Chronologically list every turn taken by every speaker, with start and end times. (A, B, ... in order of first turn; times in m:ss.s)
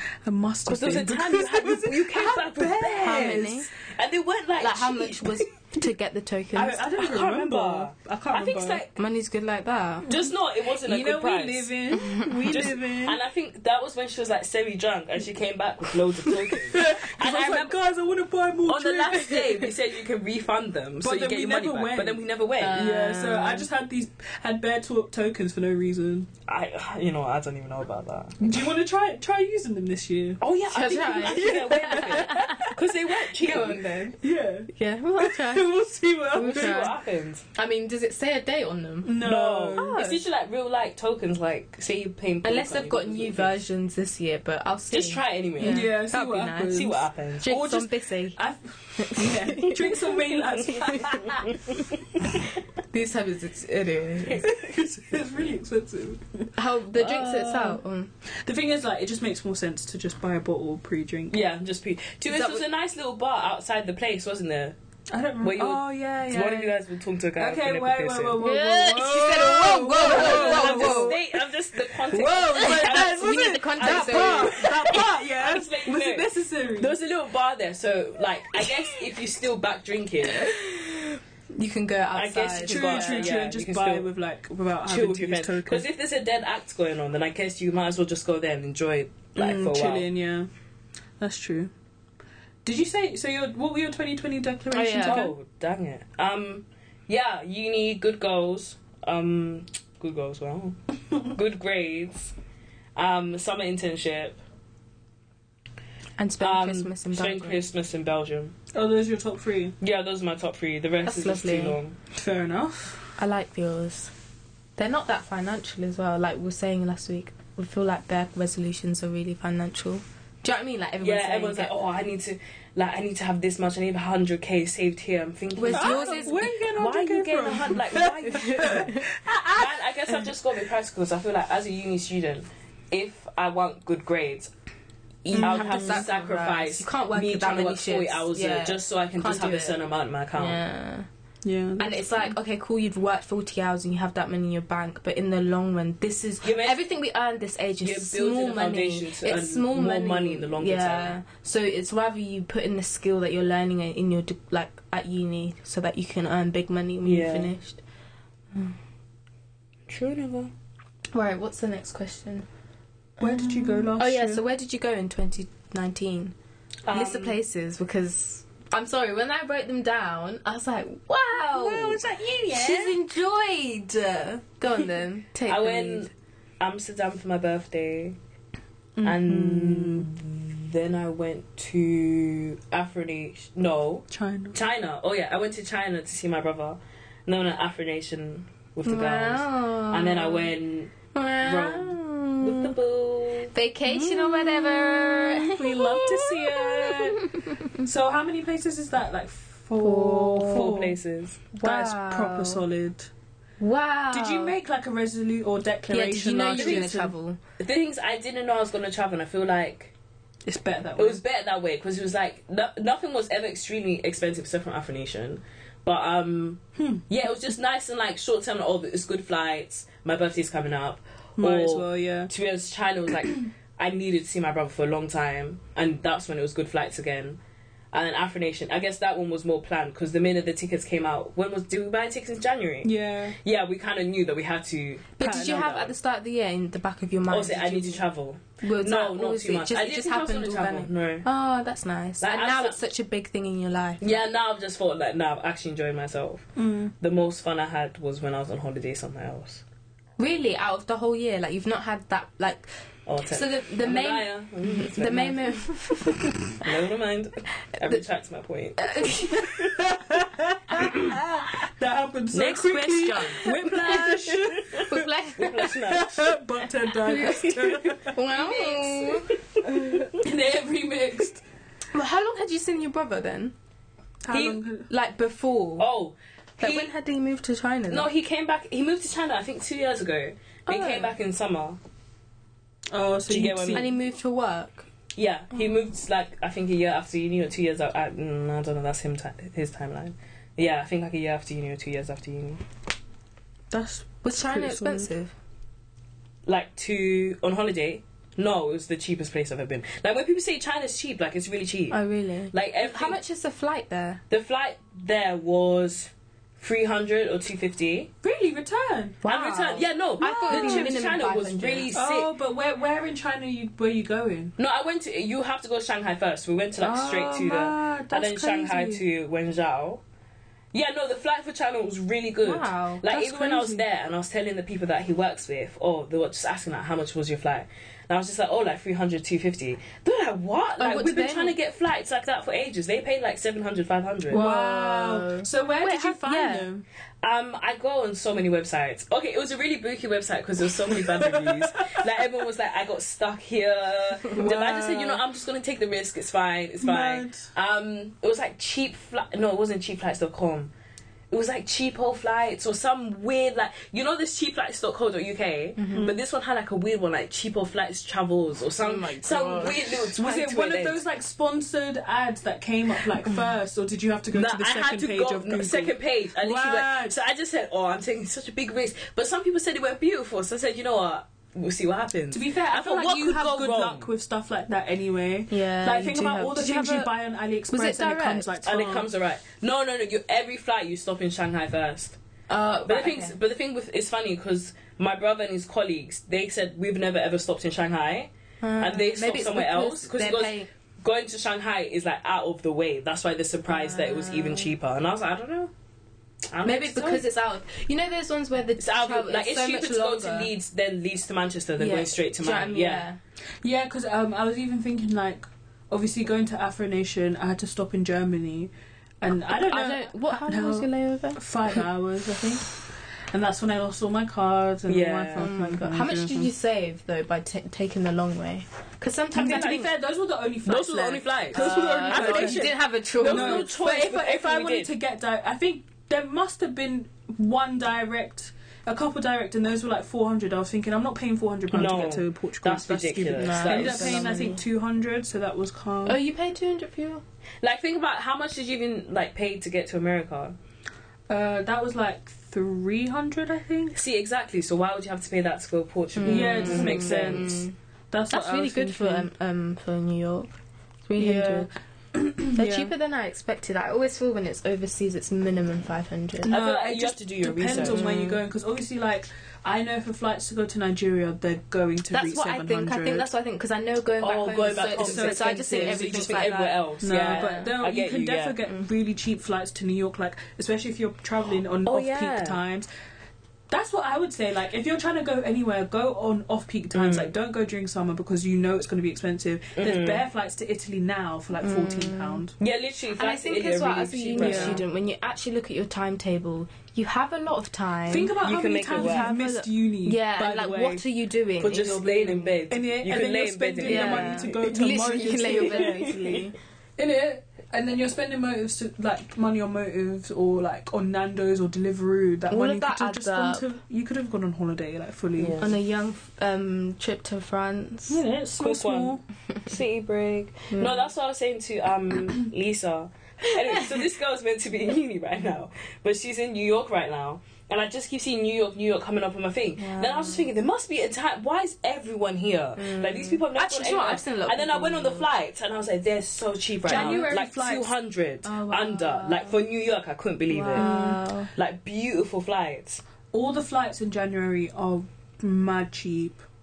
0:00.2-0:03.7 A
0:00.6-0:05.5 B
0:03.0-0:03.7 C
0:04.6-0:06.8 C
0:06.5-0:08.8 A
0:07.0-0:09.0 B
0:09.0-0:10.1 C
0:10.0-0:11.7 B
0:10.1-0:13.2 A
0:12.0-0:12.3 C
0:12.4-0:17.8 B
0:16.7-0:19.8 A
0:18.7-0:22.8 B
0:21.0-0:26.3 A
0:22.6-0:23.7 C
0:26.5-0:28.4 B
0:28.4-0:30.4 A
0:30.4-0:33.9 B
0:30.7-0:32.7 C
0:31.2-0:32.7 A
0:33.4-0:34.2 C
0:34.2-0:36.9 A
0:34.7-0:35.7 C
0:36.3-0:37.0 C
0:36.4-0:37.4 B
0:37.5-0:40.2 C
0:39.0-0:39.9 A
0:39.2-0:43.5 B
0:42.4-0:48.4 C
0:44.9-0:45.9 B
0:45.6-0:51.5 A
0:46.7-0:47.5 B
0:49.0-0:50.1 C
0:50.7-0:51.2 C
0:50.9-0:51.8 B
0:52.9-0:54.5 C
0:54.3-0:57.8 A
0:56.5-0:58.1 C
0:58.4-1:01.4 A
1:01.3-1:04.8 B
1:02.3-1:02.6 C
1:05.1-1:06.8 A
1:05.4-1:08.4 B
1:07.4-1:11.3 A
1:08.4-1:11.2 C
1:10.0-1:20.5 B
1:12.0-1:17.0 A
1:12.5-1:14.7 C
1:20.4-1:23.3 C
1:22.1-1:24.1 B
1:22.6-1:25.8 A
1:24.8-1:30.1 B
1:29.3-1:30.5 A
1:31.2-1:31.7 A
1:32.6-1:35.3 A
1:34.7-1:35.3 C
1:35.0-1:42.3 B
1:43.0-1:44.4 B
1:46.2-1:47.6 C
1:46.4-1:48.5 B
1:48.7-1:49.8 A
1:49.8-1:52.0 B
1:51.0-1:51.8 C
1:52.1-1:53.1 A
1:53.2-1:54.1 C
1:54.8-2:01.7 C
2:01.0-2:09.0 B
2:05.5-2:06.4 C
2:05.7-2:10.3 A
2:08.3-2:09.1 C
2:09.5-2:14.5 B
2:15.2-2:20.6 B
2:15.3-2:19.8 C
2:15.3-2:16.1 A
2:20.3-2:21.1 C
2:21.4-2:22.0 A
2:21.8-2:37.8 C
2:26.4-2:26.8 B
2:27.8-2:31.2 B
2:37.0-2:37.5 B
2:39.9-2:40.5 B
2:41.1-2:42.4 C
2:43.2-2:44.4 A
2:43.2-2:46.3 C
2:46.8-2:47.4 B
2:46.9-2:56.1 C
2:51.5-2:53.0 A
2:55.4-2:58.2 B
2:59.0-3:00.1 A
2:59.0-3:13.5 B
3:04.1-3:04.6 A
3:08.8-3:10.5 C
3:11.1-3:12.7 C
3:13.5-3:17.8 C
3:13.9-3:21.0 A
3:19.8-3:20.7 C
3:20.5-3:21.4 B
3:21.5-3:22.6 C
3:21.6-3:23.1 A
3:23.6-3:24.5 C
3:24.1-3:27.1 A
3:25.9-3:27.4 C
3:26.5-3:26.9 B
3:27.6-3:29.9 B
3:30.4-3:31.2 A
3:31.0-3:47.4 B
3:36.8-3:37.0 A
3:41.4-3:42.3 A
3:47.9-3:55.9 B
3:52.8-3:53.4 A
3:55.2-3:58.0 C
3:55.2-3:55.8 A
3:57.3-4:01.2 B
3:58.6-4:04.2 C
4:02.2-4:02.8 B
4:04.0-4:06.5 B
4:06.6-4:06.9 A
4:07.0-4:09.6 B
4:10.2-4:12.7 C
4:13.0-4:15.6 B
4:13.3-4:16.2 C
4:16.6-4:19.7 B
4:18.8-4:19.7 C
4:19.8-4:25.1 A
4:22.3-4:26.3 B
4:23.4-4:24.0 C
4:24.8-4:25.7 C
4:25.6-4:28.2 A
4:27.0-4:29.4 C
4:27.2-4:30.3 B
4:29.8-4:31.4 A
4:31.9-4:33.5 C
4:34.2-4:34.9 A
4:34.3-4:34.6 B
4:34.9-4:35.9 C
4:35.8-4:36.9 B
4:36.6-4:38.1 C
4:37.9-4:41.8 B
4:40.7-4:41.1 C
4:42.9-4:43.9 A
4:43.3-4:43.9 B
4:43.7-4:44.9 C
4:45.1-4:52.6 B
4:53.7-4:55.1 A
4:54.2-4:55.3 C
4:56.4-5:02.0 B
5:01.9-5:04.2 C
5:02.5-5:03.2 B
5:04.3-5:08.1 B
5:08.2-5:09.2 A
5:09.2-5:11.9 C
5:09.2-5:12.3 B
5:10.2-5:10.9 A
5:11.9-5:14.5 A
5:14.6-5:20.0 B
5:16.8-5:19.0 A
5:20.7-5:34.4 B
5:22.4-5:23.1 C
5:23.1-5:23.8 A
5:30.8-5:31.5 C
5:34.3-5:36.7 C
5:34.3-5:36.8 A
5:37.2-5:50.7 B
5:41.1-5:42.0 A
5:44.3-5:45.2 A
5:46.8-5:47.5 A
5:51.3-6:01.0 B
5:55.8-5:56.1 C
5:55.9-5:56.2 A
5:58.8-6:00.1 C
6:00.2-6:07.2 A
6:04.3-6:14.1 B
6:12.3-6:19.1 A
6:15.5-6:17.1 C
6:17.7-6:18.5 C
6:18.6-6:22.2 B
6:22.5-6:23.4 C
6:22.8-6:35.7 B
6:28.6-6:30.7 C
6:33.7-6:34.7 C
6:36.5-6:37.2 B
6:36.6-6:40.5 C
6:38.8-6:43.0 B
6:41.8-6:43.2 C
6:43.6-6:56.5 A
6:49.6-6:51.4 C
6:54.9-6:55.5 B
6:55.4-6:59.9 C
6:59.3-6:59.8 B
6:59.3-7:02.7 A
7:00.6-7:04.9 B
7:01.5-7:03.7 C
7:03.2-7:16.2 A
7:11.7-7:14.4 B
7:13.3-7:14.6 C
7:16.0-7:17.2 C
7:17.6-7:20.6 B
7:21.3-7:24.0 A
7:23.9-7:27.6 B
7:26.2-7:27.7 C
7:26.2-7:29.3 A
7:28.3-7:30.5 C
7:31.1-7:31.7 C
7:31.2-7:32.9 A
7:32.5-7:36.5 C
7:36.4-7:43.3 A
7:36.4-7:38.0 B
7:37.7-7:38.4 C
7:42.1-7:47.7 C
7:44.2-7:48.6 B
7:44.8-7:46.5 A
7:47.0-7:52.9 A
7:51.8-7:52.6 B
7:53.7-8:02.5 A
7:56.9-7:57.3 B
7:59.8-8:00.2 B
8:01.6-8:02.4 C
8:02.6-8:04.8 B
8:03.2-8:08.3 C
8:04.4-8:04.8 A
8:08.1-8:11.0 A
8:08.4-8:09.3 B
8:08.9-8:12.3 C
8:11.6-8:14.5 B
8:12.0-8:16.4 A
8:13.8-8:16.5 C
8:15.4-8:16.4 B
8:17.0-8:25.6 A
8:22.5-8:23.7 C
8:25.4-8:25.8 B
8:25.6-8:28.2 C
8:28.1-8:29.2 A
8:28.6-8:50.9 B
8:30.7-8:31.1 C
8:39.8-8:40.5 C
8:42.8-8:45.3 C
8:46.8-8:47.9 A
8:46.9-8:47.3 C
8:48.4-8:49.6 C
8:50.5-8:51.5 C
8:50.7-8:51.2 A
8:51.5-8:53.0 B
8:53.3-8:56.4 A